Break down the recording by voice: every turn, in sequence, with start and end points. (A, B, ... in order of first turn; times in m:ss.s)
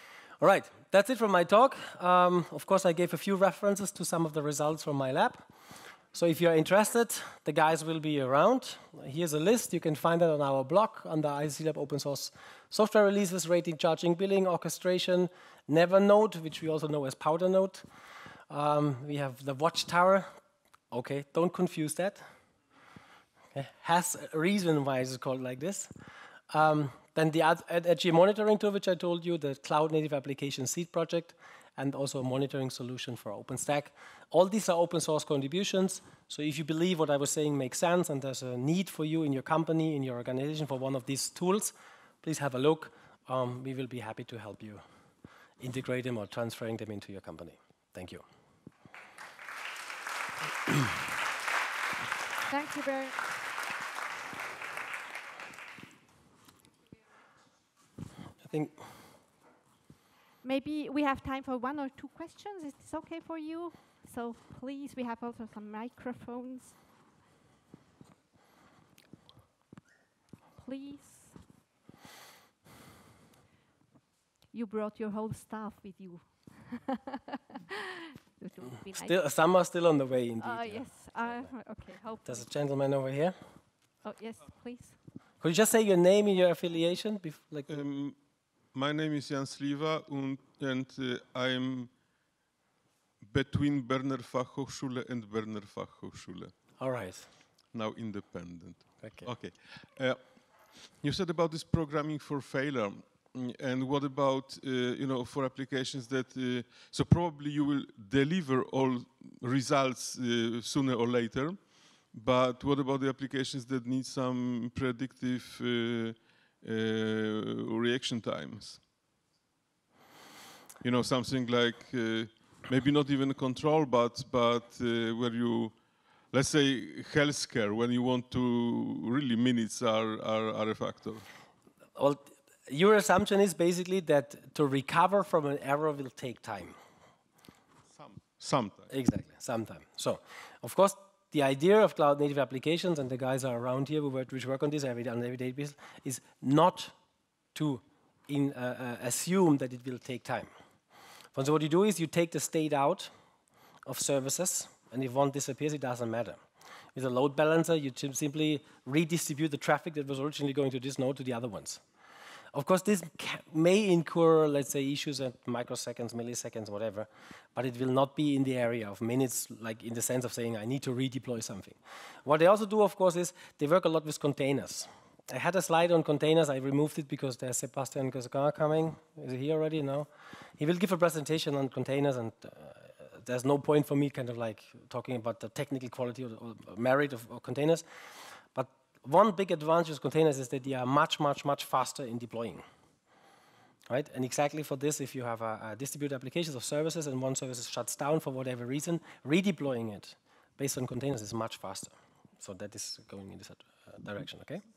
0:00.4-0:05.4 A
0:06.1-0:17.8 A
0:18.5-0:20.3 A
0:20.9-0:22.2 A
0:23.5-0:25.9 A
0:26.5-0:44.8 A
0:45.6-0:48.2 A
0:52.5-0:53.3 B
0:58.4-0:58.8 A
1:00.4-1:06.8 B
1:10.5-1:11.4 B
1:14.5-1:17.2 B
1:18.3-1:19.2 B
1:19.0-1:21.5 A
1:20.4-1:22.5 B
1:22.2-1:23.4 A
1:24.0-1:25.0 B
1:25.4-1:27.7 A
1:27.7-1:32.0 C
1:33.2-1:36.8 C
1:36.8-1:37.3 A
1:37.7-1:58.8 C
1:39.0-1:39.3 A
2:00.8-2:11.2 C
2:12.0-2:16.8 A
2:17.9-2:18.9 C
2:18.9-2:26.9 A
2:27.5-2:30.5 A
2:31.3-2:33.1 A
2:33.8-2:36.4 A
2:36.9-2:41.8 A
2:42.5-3:00.1 A
3:00.6-3:07.8 A
3:08.5-3:12.6 A
3:13.9-3:24.6 A